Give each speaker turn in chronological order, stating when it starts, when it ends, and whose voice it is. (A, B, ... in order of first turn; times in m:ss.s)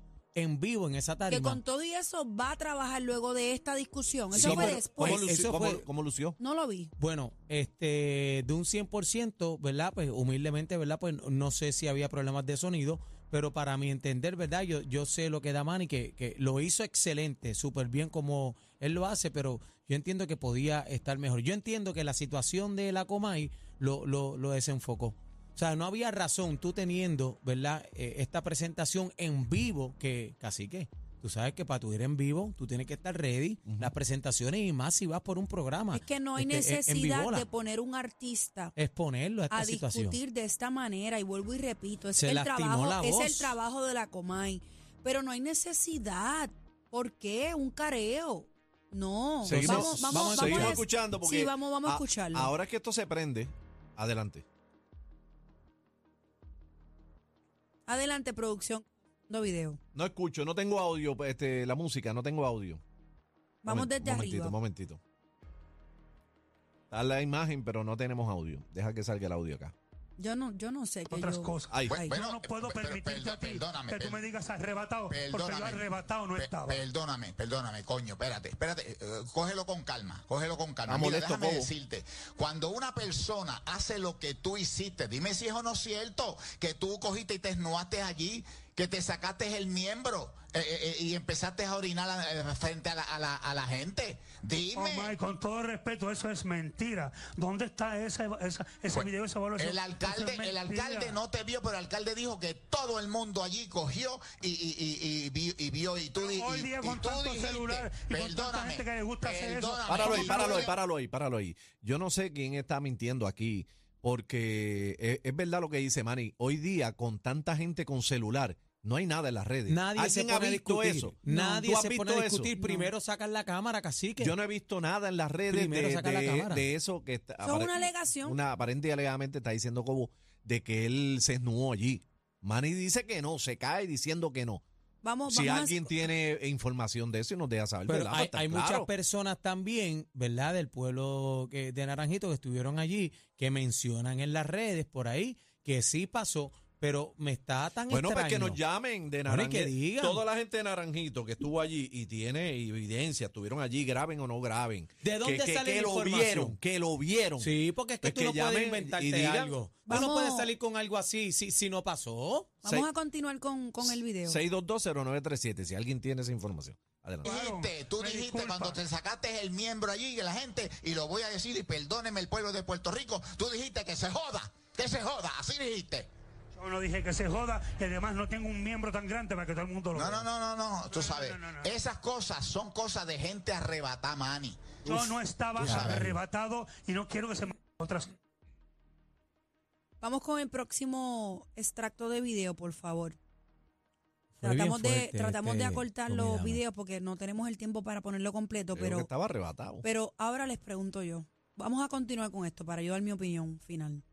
0:00.4-0:01.6 A
0:01.3-0:05.3 B
0:04.3-0:06.4 C
0:04.3-0:05.8 A
0:06.4-0:06.9 B
0:07.0-0:37.4 A
0:33.6-0:33.9 C
0:35.9-0:38.7 B
0:38.8-0:40.2 A
0:39.5-0:52.5 B
0:42.2-0:43.5 A
0:49.4-0:54.4 C
0:49.4-0:50.8 A
0:57.9-0:59.8 B
0:59.9-1:02.8 C
1:03.6-1:04.6 B
1:03.7-1:05.0 C
1:06.9-1:09.7 C
1:10.2-1:12.1 B
1:11.1-1:16.8 D
1:11.7-1:12.0 C
1:11.9-1:14.2 E
1:15.1-1:35.2 E
1:20.9-1:21.7 C
1:34.7-1:41.2 D
1:38.9-1:50.7 E
1:46.2-1:50.7 D
1:49.9-2:02.5 C
1:59.7-2:04.3 A
2:02.6-2:02.9 B
2:04.2-2:14.6 C
2:05.5-2:06.6 A
2:07.4-2:08.4 B
2:15.0-2:16.0 B
2:15.3-2:18.9 C
2:17.9-2:28.6 A
2:27.9-2:39.6 C
2:29.2-2:30.2 A
2:35.0-2:36.6 A
2:37.4-2:42.6 A
2:39.9-2:40.5 B
2:42.6-2:44.4 B
2:44.2-2:47.3 C
2:47.2-2:56.1 E
2:47.2-2:48.8 D
2:56.5-3:00.2 D
2:59.9-3:06.2 E
3:00.9-3:01.7 D
3:04.8-3:08.2 D
3:05.6-3:06.1 A
3:10.0-3:13.2 B
3:14.4-3:16.6 A
3:14.4-3:19.1 B
3:18.7-3:19.8 C
3:19.8-3:24.0 B